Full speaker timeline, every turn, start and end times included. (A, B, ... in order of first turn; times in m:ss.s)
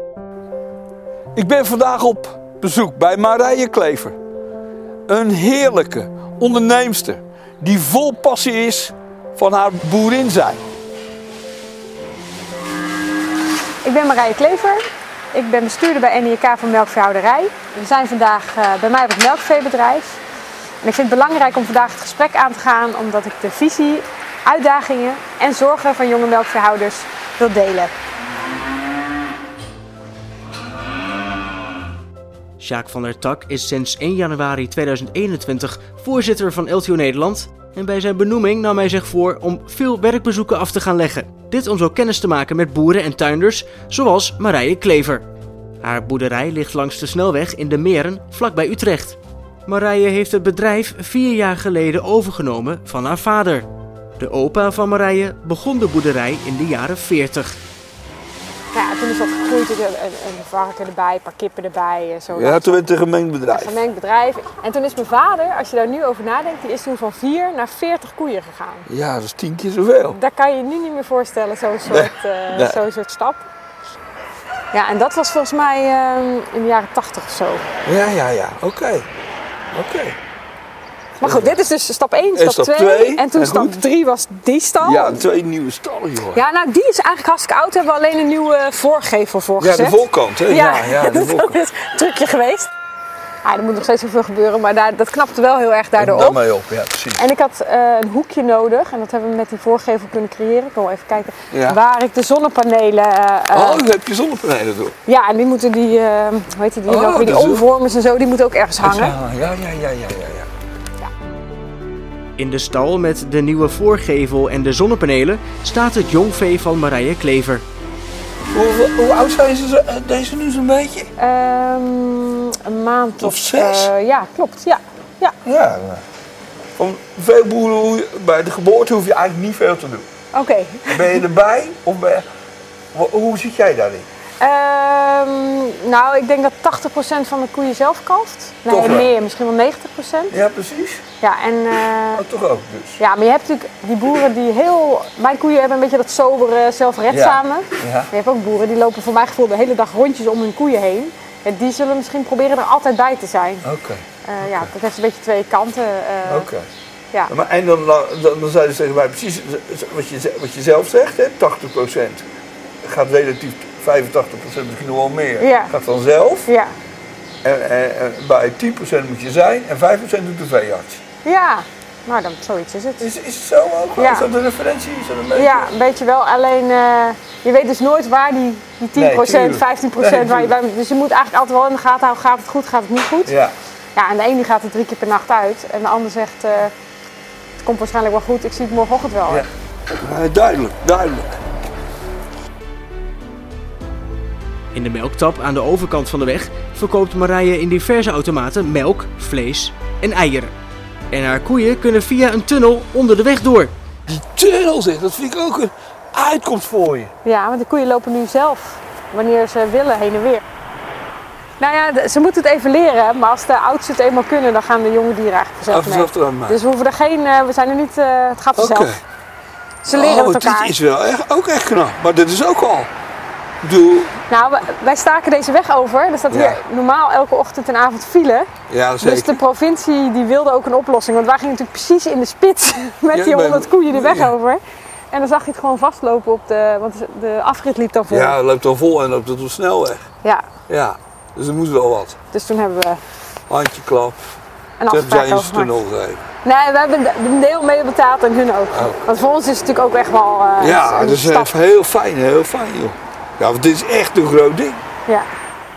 0:01.4-0:04.2 A
0:05.1-0:10.6 A
0:13.8-0:14.8 B
0:15.3-0:20.2 B
0:20.8-0:27.9 B
0:32.6-0:45.2 C
0:45.8-0:53.7 C
0:54.2-0:57.6 C
0:58.7-1:02.8 B
1:02.3-1:03.8 A
1:03.5-1:08.9 B
1:08.9-1:10.2 A
1:10.1-1:13.4 B
1:11.9-1:12.8 A
1:14.7-1:17.6 B
1:17.8-1:19.1 A
1:19.7-1:20.2 A
1:21.2-1:25.2 B
1:21.2-1:21.6 A
1:22.3-1:23.7 A
1:24.8-1:26.4 A
1:26.3-1:32.7 B
1:29.6-1:31.6 A
1:33.4-1:36.4 B
1:36.0-1:37.2 A
1:37.2-1:43.8 B
1:41.5-1:41.8 A
1:43.5-1:44.9 A
1:45.1-1:49.2 B
1:46.9-1:47.7 A
1:48.8-1:50.5 A
1:52.4-1:57.6 C
1:58.5-2:01.1 A
2:01.2-2:05.4 B
2:03.2-2:03.9 A
2:05.4-2:06.0 A
2:06.8-2:10.1 A
2:10.3-2:11.2 B
2:10.9-2:12.2 A
2:12.9-2:14.1 A
2:14.4-2:20.4 B
2:18.7-2:19.1 A
2:20.3-2:21.0 A
2:21.2-2:22.2 B
2:22.2-2:23.0 A
2:23.0-2:33.7 B
2:27.1-2:28.1 A
2:33.6-2:34.7 A
2:34.2-2:36.5 B
2:36.2-2:36.7 A
2:37.3-2:42.3 A
2:42.8-2:46.5 A
2:45.4-2:45.7 B
2:46.5-2:46.7 B
2:47.4-2:51.0 A
2:51.2-2:53.1 B
2:53.0-2:55.7 A
2:54.0-2:54.3 B
2:55.3-3:03.4 B
2:59.0-3:00.5 A
3:03.3-3:03.6 A
3:04.0-3:06.7 B
3:07.6-3:09.5 B
3:09.3-3:11.4 A
3:14.7-3:20.5 C
3:21.1-3:23.7 C
3:24.1-3:27.1 A
3:27.2-3:30.4 B
3:31.6-3:39.0 B
3:35.7-3:36.6 A
3:38.6-3:39.0 A
3:39.8-3:40.7 B
3:39.9-3:42.9 A
3:43.6-3:44.1 A
3:44.3-3:48.5 B
3:46.3-3:46.6 A
3:48.7-3:49.4 A
3:49.0-3:54.6 B
3:53.1-3:54.3 A
3:55.1-3:58.4 B
3:58.1-4:00.1 A
4:00.7-4:02.2 A
4:02.3-4:03.0 B
4:03.5-4:04.2 A
4:04.8-4:05.8 B
4:04.9-4:06.3 A
4:06.4-4:11.6 B
4:08.7-4:09.1 A
4:10.6-4:14.8 A